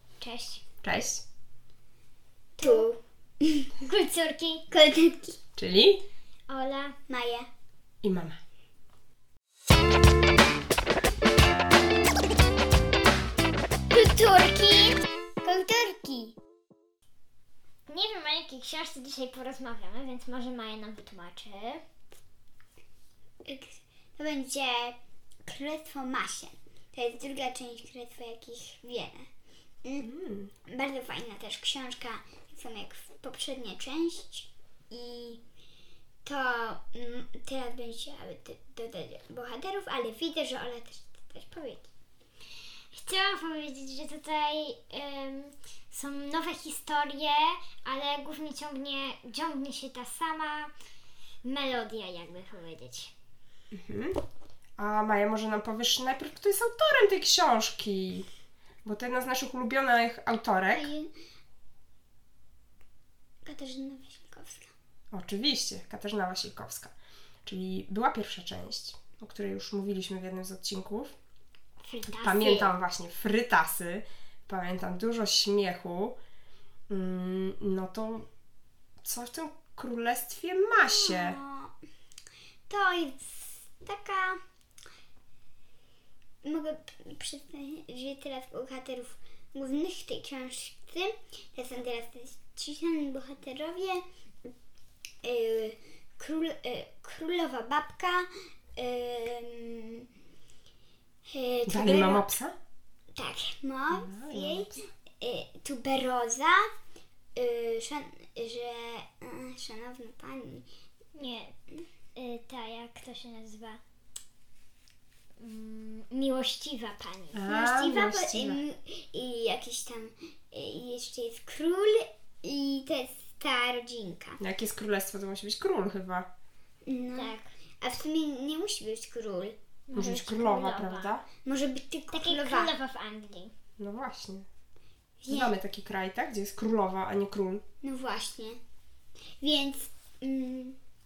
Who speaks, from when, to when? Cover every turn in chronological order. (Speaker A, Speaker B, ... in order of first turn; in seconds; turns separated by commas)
Speaker A: 0.2-0.6, Speaker B: 0.8-1.2, Speaker C: 2.6-3.7, Speaker A: 2.6-2.9, Speaker A: 3.8-4.7, Speaker C: 4.7-5.4, Speaker B: 5.6-6.0, Speaker A: 6.5-7.0, Speaker C: 7.1-7.5, Speaker B: 8.0-8.4, Speaker A: 13.9-14.9, Speaker C: 15.4-16.4, Speaker A: 17.9-21.8, Speaker C: 23.4-29.3, Speaker B: 30.0-30.5, Speaker C: 30.6-35.4, Speaker C: 36.2-41.9, Speaker A: 42.9-50.7, Speaker A: 51.4-53.1, Speaker B: 53.7-54.2, Speaker B: 54.8-58.3, Speaker B: 58.8-60.9, Speaker C: 60.7-61.1, Speaker C: 63.4-64.7, Speaker B: 65.1-71.1, Speaker A: 71.8-72.7, Speaker B: 72.0-76.2, Speaker B: 76.9-78.3, Speaker B: 79.0-81.4, Speaker C: 80.8-81.7, Speaker C: 82.7-84.4, Speaker C: 86.4-94.0, Speaker C: 95.2-100.1, Speaker C: 101.3-102.3, Speaker B: 101.7-102.5, Speaker C: 103.1-106.7, Speaker B: 103.9-104.7, Speaker C: 107.3-110.7, Speaker A: 111.1-111.5, Speaker A: 112.2-113.8, Speaker A: 115.4-117.4, Speaker B: 117.3-118.6, Speaker C: 117.5-124.4, Speaker B: 124.4-126.3, Speaker C: 126.8-129.5, Speaker A: 127.1-127.5, Speaker A: 129.9-131.1, Speaker B: 129.9-131.2, Speaker C: 131.4-132.7, Speaker A: 132.1-133.5, Speaker B: 133.8-134.5, Speaker C: 135.2-135.5, Speaker B: 135.3-137.6, Speaker C: 137.8-138.6, Speaker C: 139.4-140.8